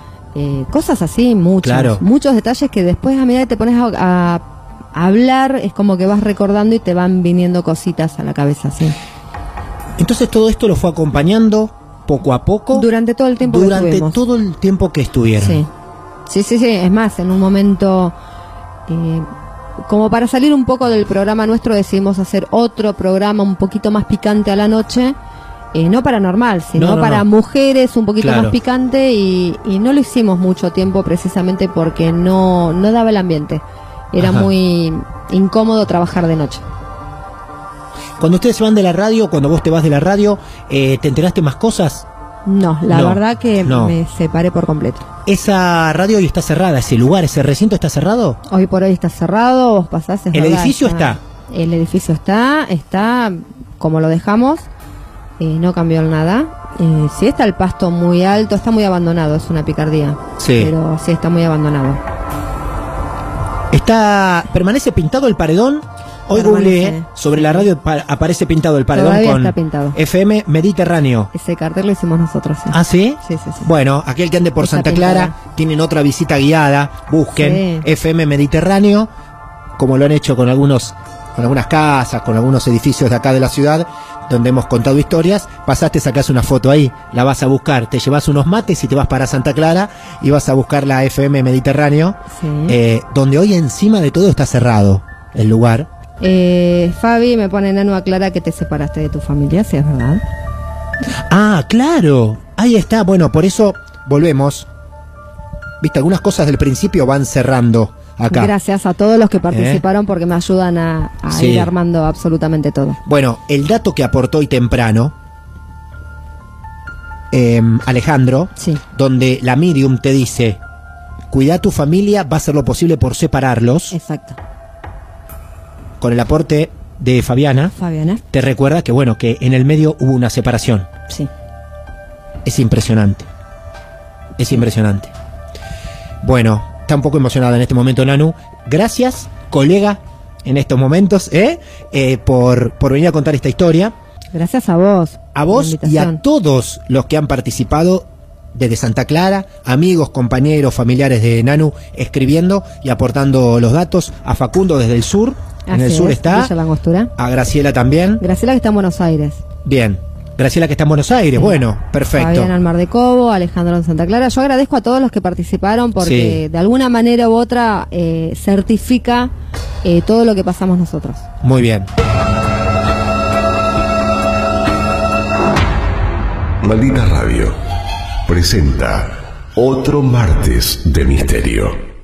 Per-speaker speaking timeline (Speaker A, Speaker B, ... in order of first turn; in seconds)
Speaker A: 0.3-4.4, 5.0-9.0, 12.7-14.2, 15.4-15.7, 16.3-18.1, 18.9-19.3, 19.9-25.2, 25.7-36.6, 42.5-45.1, 48.5-54.7, 55.4-62.0, 66.3-67.7, 68.9-70.0, 71.3-73.7, 74.6-75.3, 77.3-77.9, 92.3-92.8, 96.2-100.2, 108.3-113.0, 118.6-118.8, 123.9-124.4, 127.7-128.2, 144.3-146.2, 155.7-157.1, 158.2-159.4, 162.1-169.3, 169.8-171.3
Speaker B: 1.6-2.0, 10.0-12.9, 13.4-15.6, 26.8-27.3, 28.2-28.6, 34.2-34.5, 38.2-42.1, 42.9-44.0, 45.3-48.4, 50.3-51.2, 60.4-60.7, 63.7-71.3, 72.7-79.1, 79.8-95.9, 101.3-104.7, 105.8-108.5, 109.5-109.8, 111.3-111.7, 113.0-115.2, 117.3-120.6, 121.3-124.0, 126.0-127.7, 128.3-130.9, 132.4-133.3, 134.4-135.1, 136.2-143.9, 145.3-156.5, 157.2-158.2, 159.6-162.5, 166.0-166.4, 171.4-171.9
Speaker C: 176.6-177.6, 178.3-181.8